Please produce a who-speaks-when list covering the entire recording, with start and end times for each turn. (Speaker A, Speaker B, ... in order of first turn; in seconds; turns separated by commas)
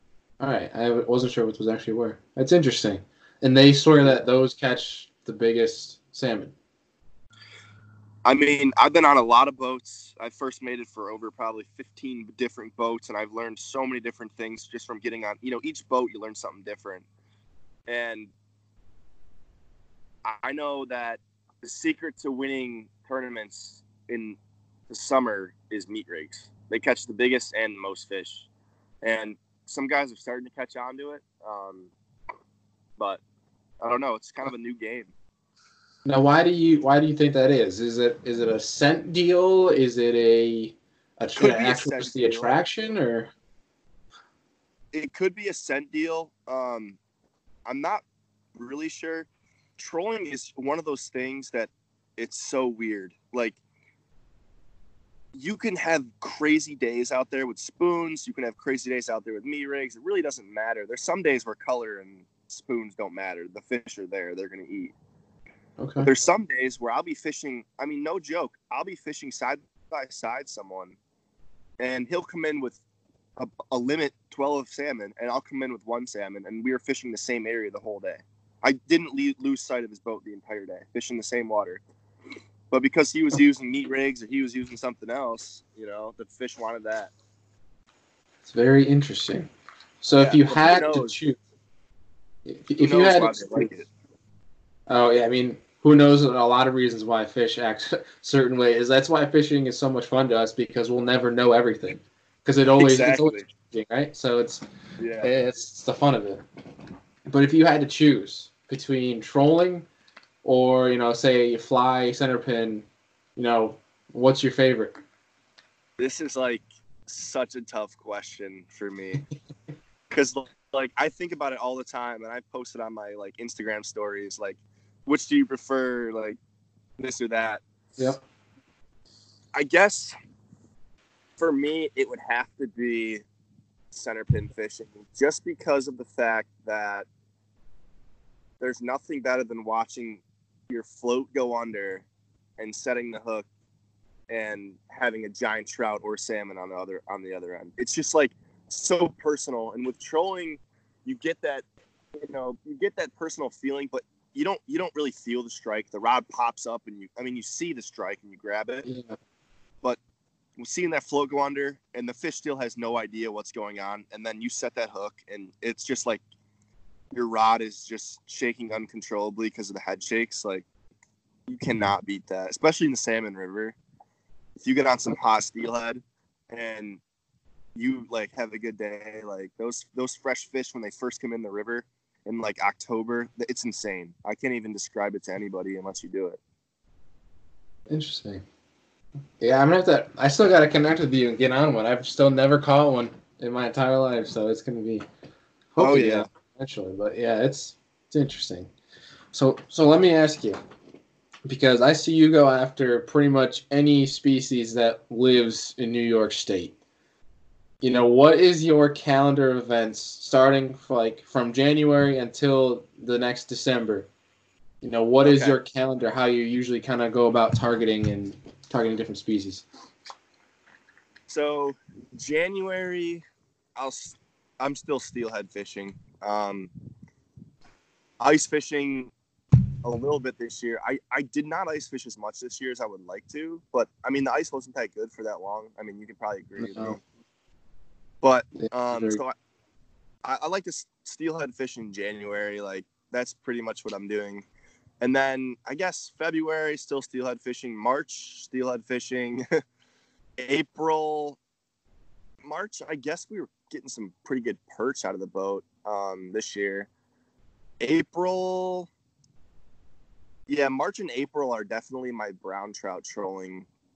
Speaker A: 0.4-6.5, Speaker B: 8.2-17.0, Speaker B: 17.9-18.3, Speaker B: 20.2-24.4, Speaker B: 24.9-28.5, Speaker B: 29.0-31.9, Speaker B: 33.8-35.1, Speaker A: 36.0-43.3, Speaker B: 41.4-42.5, Speaker B: 44.9-47.0, Speaker B: 47.6-48.0, Speaker B: 48.5-49.3, Speaker B: 49.8-53.6, Speaker B: 55.3-64.9, Speaker A: 65.8-66.1, Speaker B: 66.0-71.0, Speaker B: 71.8-72.8, Speaker B: 73.4-81.8, Speaker B: 82.7-87.1, Speaker A: 88.4-89.5, Speaker A: 90.0-91.4, Speaker B: 90.2-91.2, Speaker A: 92.5-93.7, Speaker B: 92.8-93.9, Speaker A: 94.9-104.6, Speaker B: 102.8-103.5, Speaker B: 105.0-105.3, Speaker A: 105.2-106.4, Speaker A: 107.3-109.8, Speaker A: 110.4-112.8, Speaker A: 113.3-115.0, Speaker B: 116.0-119.2, Speaker B: 120.1-126.4, Speaker B: 127.0-127.6, Speaker B: 129.5-130.1, Speaker B: 131.4-133.2, Speaker B: 133.9-137.1, Speaker B: 138.6-142.0, Speaker B: 142.6-143.4, Speaker B: 144.3-151.6, Speaker B: 152.2-158.8, Speaker A: 158.8-159.2, Speaker B: 160.6-166.2, Speaker B: 167.1-170.6, Speaker B: 171.5-173.8, Speaker B: 174.6-177.0, Speaker B: 177.7-186.4, Speaker A: 187.9-188.4, Speaker A: 189.4-195.1, Speaker A: 195.7-198.7, Speaker B: 195.8-196.2, Speaker A: 199.3-200.6, Speaker A: 201.4-206.8, Speaker A: 207.8-214.1, Speaker A: 214.8-219.6, Speaker B: 215.2-215.6, Speaker B: 221.3-223.2, Speaker B: 223.8-226.7, Speaker B: 228.2-229.1, Speaker B: 229.8-237.0, Speaker A: 236.6-237.0, Speaker B: 238.2-239.3, Speaker A: 238.6-239.2, Speaker B: 240.2-244.4, Speaker B: 245.0-249.4, Speaker B: 250.4-251.4, Speaker B: 252.4-256.9, Speaker B: 257.8-258.9, Speaker B: 260.5-263.7